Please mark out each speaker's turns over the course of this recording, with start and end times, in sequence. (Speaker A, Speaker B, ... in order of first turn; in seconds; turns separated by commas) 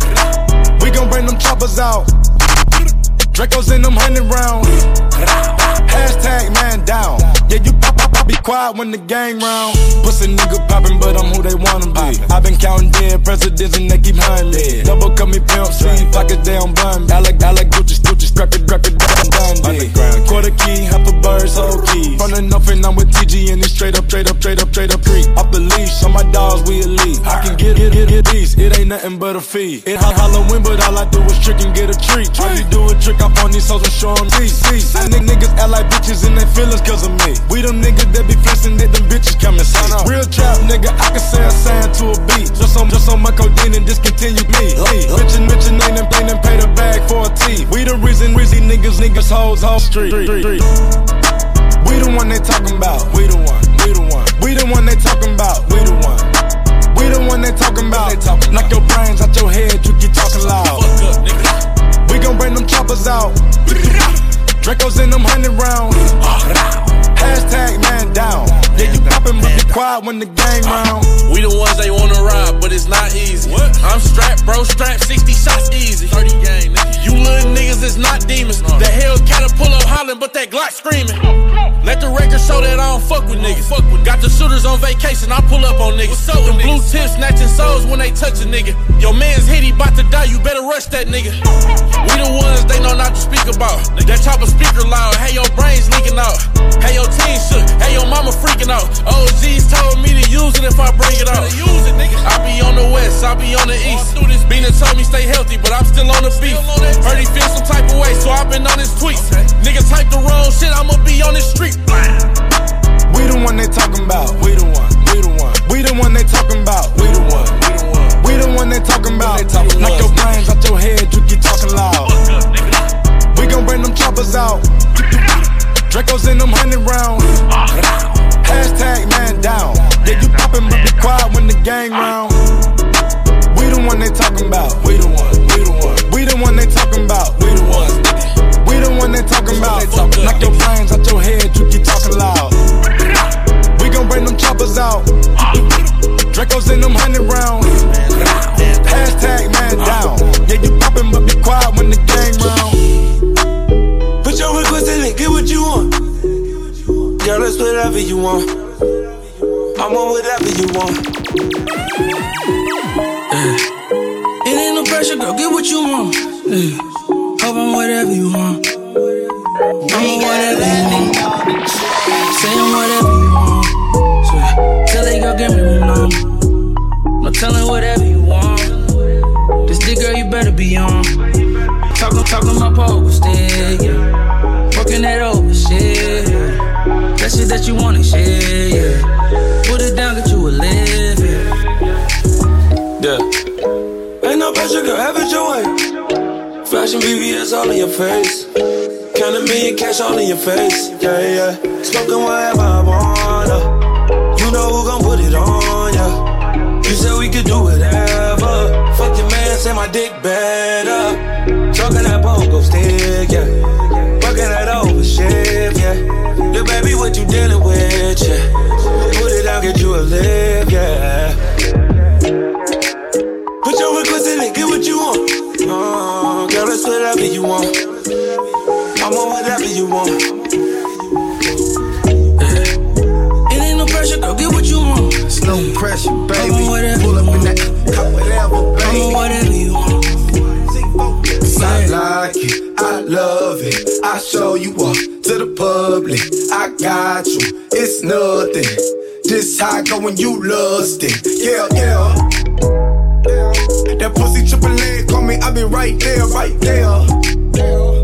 Speaker A: 0.8-2.1, Speaker A: 3.3-4.8, Speaker A: 5.8-50.7, Speaker B: 19.6-20.1, Speaker A: 51.8-56.3, Speaker A: 56.9-60.9, Speaker C: 60.5-61.6, Speaker A: 62.0-64.0, Speaker A: 64.6-66.1, Speaker A: 67.1-71.1, Speaker C: 71.2-81.2, Speaker C: 81.8-91.4, Speaker C: 92.0-112.2, Speaker A: 113.1-117.5, Speaker A: 118.2-122.1, Speaker C: 122.2-122.7, Speaker A: 123.3-125.2, Speaker A: 125.9-127.3, Speaker A: 128.4-132.4, Speaker A: 133.5-138.1, Speaker A: 138.6-142.6, Speaker C: 139.5-140.5, Speaker A: 143.8-145.1, Speaker A: 146.3-147.8, Speaker A: 148.8-152.8, Speaker D: 154.2-155.9, Speaker D: 157.2-158.5, Speaker D: 159.8-161.1, Speaker B: 163.3-163.6, Speaker B: 164.4-166.8, Speaker B: 167.4-168.8, Speaker B: 169.8-171.2, Speaker B: 172.1-176.3, Speaker B: 177.2-178.8, Speaker B: 179.7-181.2, Speaker B: 181.9-184.0, Speaker B: 184.7-186.6, Speaker B: 187.2-189.1, Speaker B: 189.6-191.5, Speaker D: 194.2-195.8, Speaker D: 196.7-198.5, Speaker D: 199.1-203.7, Speaker D: 204.3-206.2, Speaker D: 206.8-221.4, Speaker D: 223.6-227.8, Speaker D: 229.0-230.2, Speaker B: 232.4-232.7, Speaker B: 233.5-235.8, Speaker E: 235.3-239.2, Speaker B: 236.3-237.6, Speaker B: 238.8-240.2, Speaker E: 240.8-252.2, Speaker B: 241.6-241.9, Speaker E: 253.9-257.1